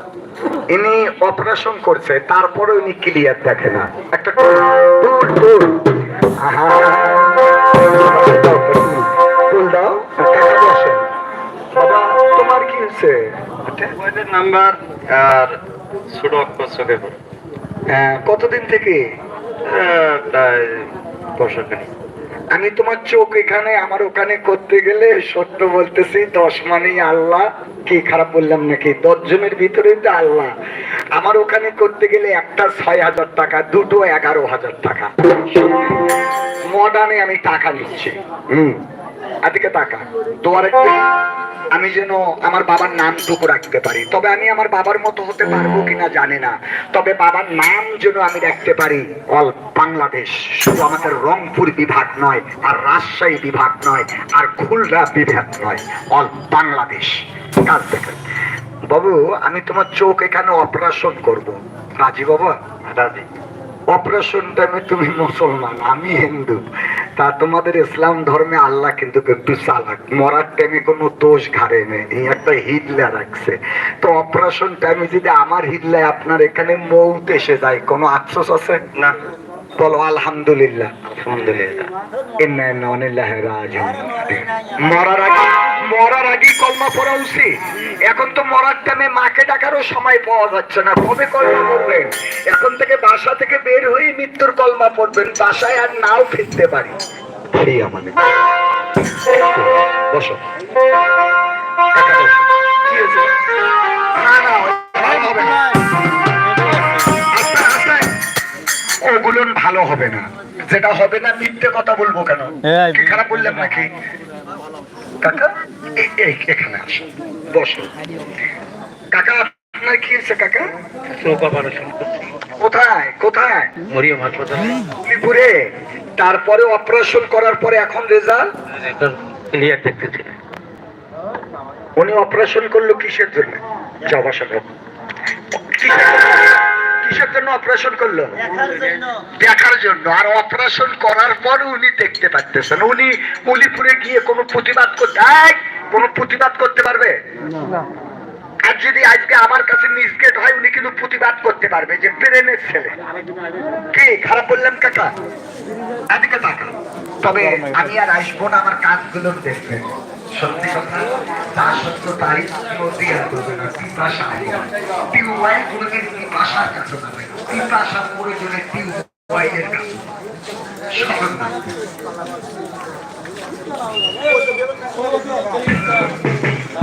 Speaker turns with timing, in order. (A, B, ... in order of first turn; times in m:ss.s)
0:00.7-0:05.8 A
0:06.4-0:11.0 A
0:11.7-0:13.3 A
0:13.6-0:15.6 B
0:16.1-0:17.2 B
0:17.9-0:19.0 A
0:19.6-0:21.9 B
0:22.5-0:30.5 A
0:31.2-0:36.0 A
0:36.7-0:38.8 A
0:39.4-0:41.0 A
0:41.8-0:58.2 A
0:58.9-1:02.6 A
1:02.8-1:03.3 B
1:03.9-1:06.6 A
1:07.2-1:18.8 A
1:19.8-1:20.9 A
1:21.0-1:21.9 B
1:22.4-1:27.6 A
1:28.1-1:37.0 A
1:37.5-1:38.2 A
1:39.2-1:40.4 A
1:41.9-1:43.3 A
1:44.1-1:45.7 A
1:47.2-1:48.1 A
1:49.0-1:53.9 A
1:55.2-1:57.9 A
1:59.1-2:00.7 A
2:01.1-2:02.3 B
2:02.6-2:03.7 A
2:03.9-2:04.8 B
2:05.0-2:08.5 A
2:08.8-2:10.3 B
2:12.0-2:14.7 A
2:15.5-2:18.4 A
2:19.4-2:27.2 A
2:28.6-2:33.0 A
2:33.9-2:35.1 A
2:36.1-2:50.1 A
2:50.9-2:51.6 A